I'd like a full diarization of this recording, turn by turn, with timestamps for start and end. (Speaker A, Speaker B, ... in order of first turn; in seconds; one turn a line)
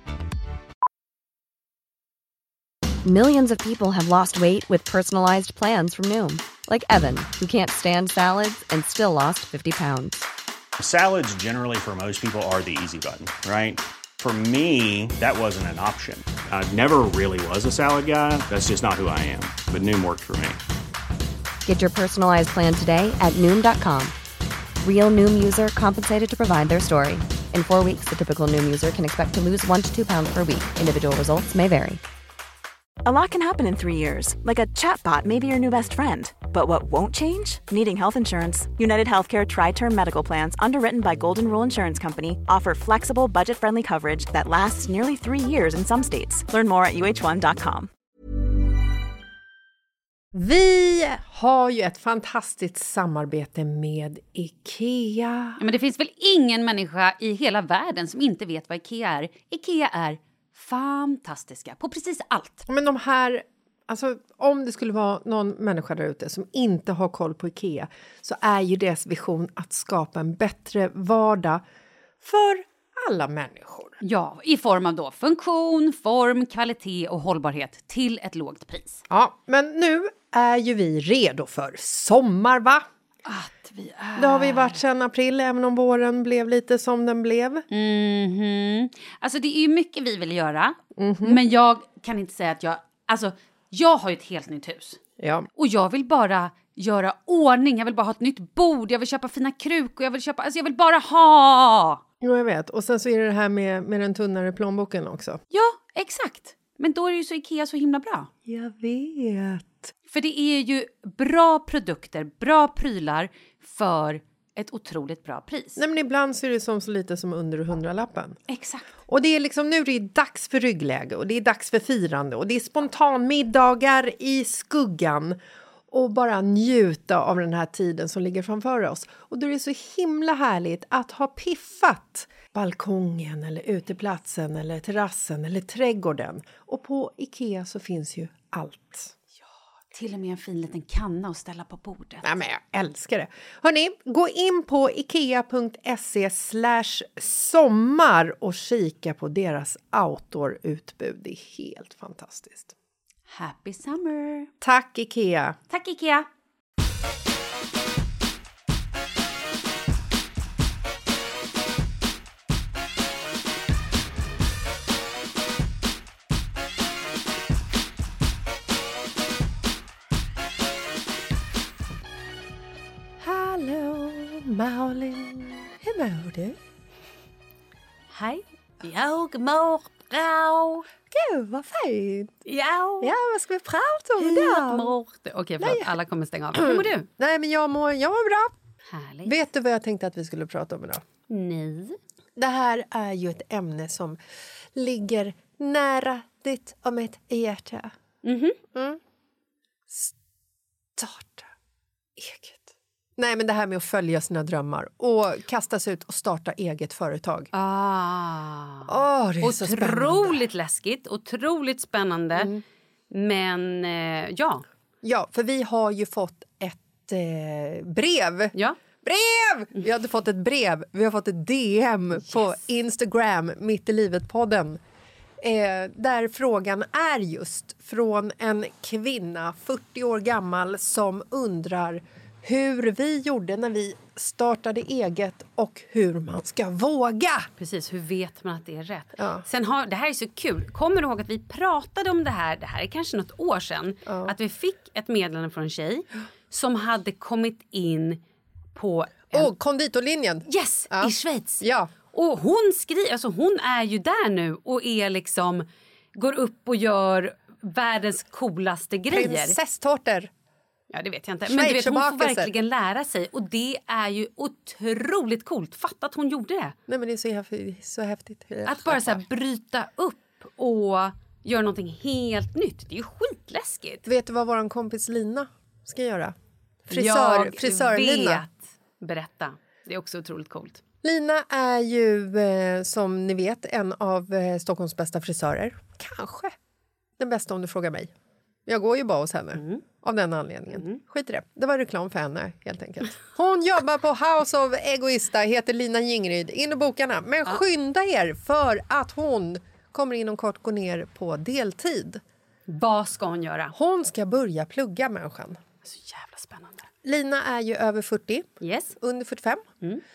Speaker A: 3.0-10.3
Speaker B: 10.8-20.6
Speaker A: 21.6-24.1
Speaker A: 24.8-32.0
Speaker C: 33.0-47.9
Speaker D: 50.3-55.6
Speaker E: 55.6-62.6
Speaker D: 62.7-71.6
Speaker D: 72.2-74.0
Speaker E: 74.0-79.0
Speaker D: 79.1-82.8
Speaker E: 83.2-84.8
Speaker D: 84.2-87.6
Speaker E: 87.7-95.0
Speaker D: 91.0-91.4
Speaker D: 95.2-95.5
Speaker E: 95.6-102.0
Speaker D: 102.2-105.4
Speaker E: 105.5-108.3
Speaker D: 108.4-109.9
Speaker E: 110.1-115.8
Speaker D: 115.8-118.4
Speaker E: 118.5-118.9
Speaker D: 119.1-125.4
Speaker D: 125.9-139.1
Speaker E: 139.9-142.3
Speaker D: 142.2-152.7
Speaker E: 153.3-154.5
Speaker D: 154.6-155.6
Speaker E: 155.7-156.3
Speaker D: 173.2-176.6
Speaker E: 178.1-180.8
Speaker D: 181.1-182.3
Speaker E: 182.4-183.1
Speaker D: 183.0-184.9
Speaker E: 184.2-187.1
Speaker D: 185.6-185.9
Speaker D: 186.5-188.5
Speaker E: 188.9-189.3
Speaker D: 189.2-191.0
Speaker E: 191.3-192.0
Speaker D: 192.4-194.2
Speaker D: 194.7-197.9
Speaker E: 198.2-198.6
Speaker D: 198.7-199.0
Speaker D: 200.9-201.5
Speaker D: 202.2-207.5
Speaker E: 207.5-208.9
Speaker D: 208.8-210.4
Speaker E: 209.4-212.5
Speaker D: 212.3-212.6
Speaker E: 213.1-214.7
Speaker D: 215.0-224.8
Speaker D: 225.4-237.5
Speaker E: 237.6-248.2
Speaker D: 239.2-239.4
Speaker D: 244.1-244.3
Speaker E: 248.7-249.5
Speaker D: 249.3-251.9
Speaker E: 250.5-259.6
Speaker D: 259.1-260.3
Speaker E: 260.9-266.7
Speaker D: 261.4-262.5
Speaker D: 266.9-269.2
Speaker E: 268.6-274.1
Speaker D: 274.1-278.4
Speaker E: 276.9-280.8
Speaker D: 281.0-286.6
Speaker D: 287.2-288.1
Speaker D: 288.6-302.2
Speaker E: 289.6-289.8
Speaker E: 290.7-291.0
Speaker E: 302.7-303.7
Speaker D: 303.7-305.6
Speaker E: 305.8-306.9
Speaker D: 307.0-308.5
Speaker E: 308.6-308.9
Speaker D: 309.0-309.6